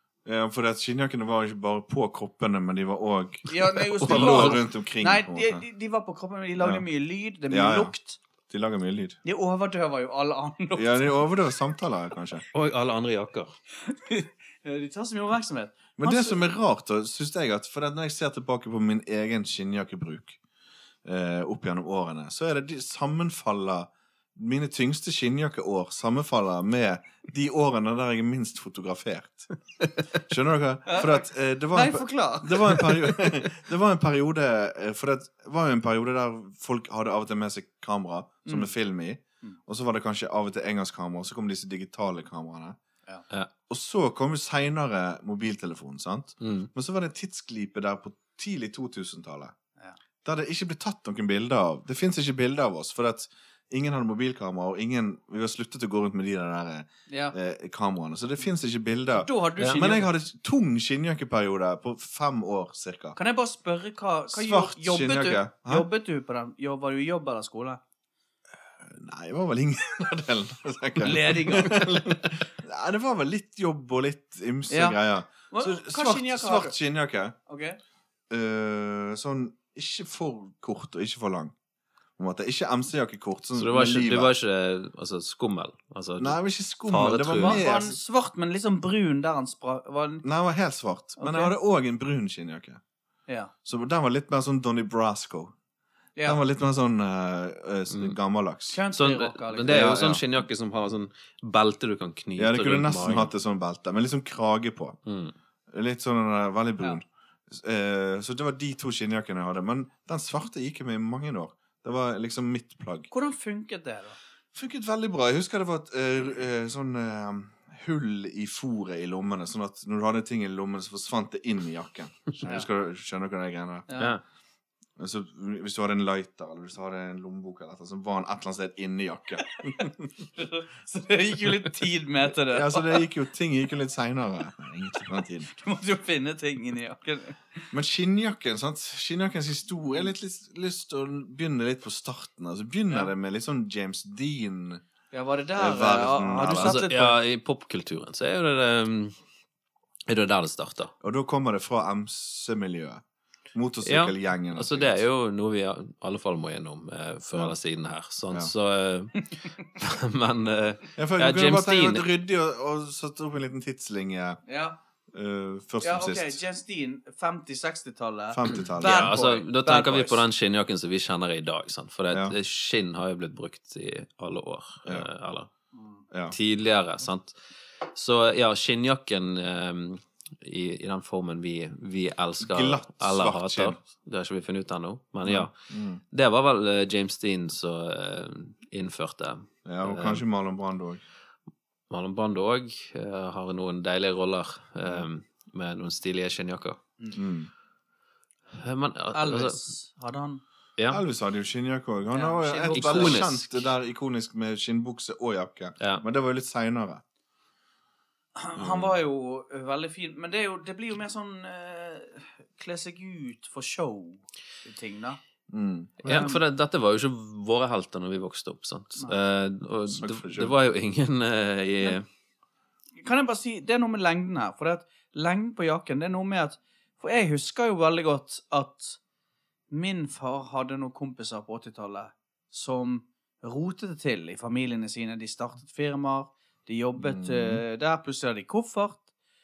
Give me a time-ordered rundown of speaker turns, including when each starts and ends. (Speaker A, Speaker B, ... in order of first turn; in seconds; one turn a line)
Speaker A: 0.2-5.6
Speaker B: 3.5-8.2
Speaker C: 4.0-4.6
Speaker A: 6.6-6.8
Speaker A: 7.5-7.9
Speaker A: 8.5-9.2
Speaker B: 9.2-11.3
Speaker A: 10.8-12.4
Speaker C: 12.5-13.5
Speaker B: 13.8-16.4
Speaker A: 16.0-20.4
Speaker A: 21.0-29.5
Speaker A: 30.3-42.8
Speaker B: 30.9-33.1
Speaker B: 38.5-38.7
Speaker A: 43.7-49.5
Speaker C: 46.4-46.7
Speaker A: 50.2-63.1
Speaker B: 57.1-57.4
Speaker B: 59.1-60.1
Speaker B: 63.1-67.8
Speaker A: 64.3-65.9
Speaker A: 68.8-77.3
Speaker B: 71.0-72.0
Speaker B: 74.7-76.7
Speaker B: 77.5-77.8
Speaker A: 78.3-81.5
Speaker A: 82.2-84.3
Speaker C: 83.5-87.6
Speaker A: 86.2-88.0
Speaker B: 87.4-90.2
Speaker A: 90.2-92.8
Speaker B: 91.2-91.5
Speaker A: 93.6-95.5
Speaker B: 96.2-96.4
Speaker A: 96.2-98.8
Speaker C: 97.9-98.2
Speaker B: 98.7-100.0
Speaker C: 98.9-103.3
Speaker A: 99.7-100.2
Speaker A: 102.4-105.0
Speaker C: 105.0-105.3
Speaker A: 105.7-113.1
Speaker B: 113.1-114.2
Speaker A: 114.5-123.9
Speaker B: 123.9-124.2
Speaker A: 125.0-130.1
Speaker B: 129.7-133.0
Speaker A: 132.5-135.5
Speaker B: 135.5-137.7
Speaker A: 137.7-144.8
Speaker B: 145.1-147.2
Speaker A: 145.5-146.8
Speaker C: 146.5-149.1
Speaker C: 150.1-150.9
Speaker A: 151.0-153.0
Speaker A: 153.5-155.0
Speaker C: 153.8-162.1
Speaker A: 160.9-164.4
Speaker B: 164.4-164.8
Speaker A: 165.1-166.4
Speaker B: 165.8-170.2
Speaker A: 168.3-169.2
Speaker C: 168.6-175.5
Speaker A: 172.1-172.3
Speaker A: 176.1-176.3
Speaker C: 176.3-185.5
Speaker A: 182.4-183.8
Speaker A: 185.2-186.0
Speaker C: 186.1-190.2
Speaker A: 189.7-191.0
Speaker C: 191.9-196.8
Speaker A: 197.1-197.5
Speaker C: 198.5-199.6
Speaker B: 199.1-200.4
Speaker A: 200.9-207.0
Speaker B: 202.1-203.2
Speaker C: 202.7-203.6
Speaker B: 208.3-215.2
Speaker A: 208.6-208.9
Speaker A: 215.5-216.3
Speaker C: 216.0-222.1
Speaker B: 216.1-216.4
Speaker A: 219.9-220.5
Speaker B: 223.0-229.0
Speaker B: 229.7-239.0
Speaker A: 237.0-237.6